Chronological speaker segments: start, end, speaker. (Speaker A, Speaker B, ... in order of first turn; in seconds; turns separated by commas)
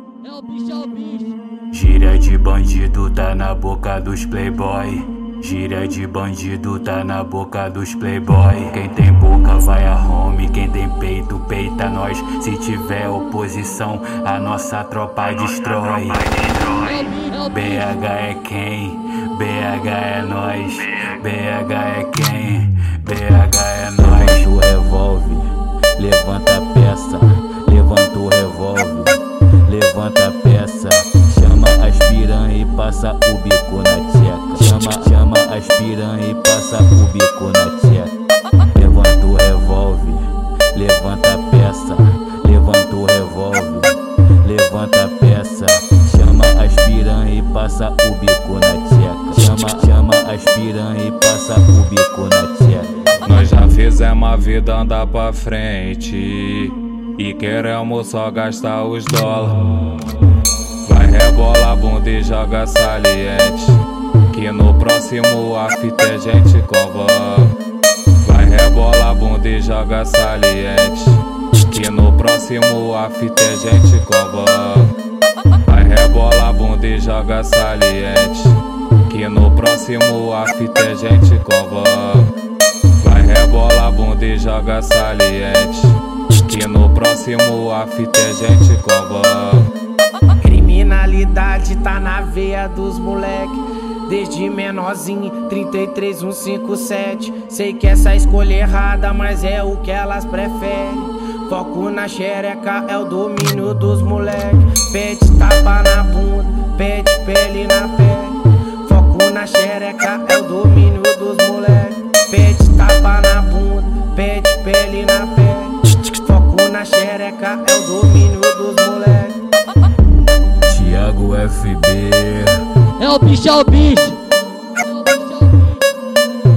Speaker A: 0.2-1.4, Speaker B: 1.7-16.7, Speaker A: 16.7-17.9, Speaker B: 17.5-38.1, Speaker B: 38.7-53.1, Speaker C: 53.2-59.8, Speaker C: 60.9-67.5, Speaker C: 68.2-74.9, Speaker C: 75.7-82.3, Speaker C: 83.0-89.7, Speaker D: 90.4-119.4, Speaker B: 120.7-122.7, Speaker A: 123.0-124.2, Speaker A: 124.8-125.8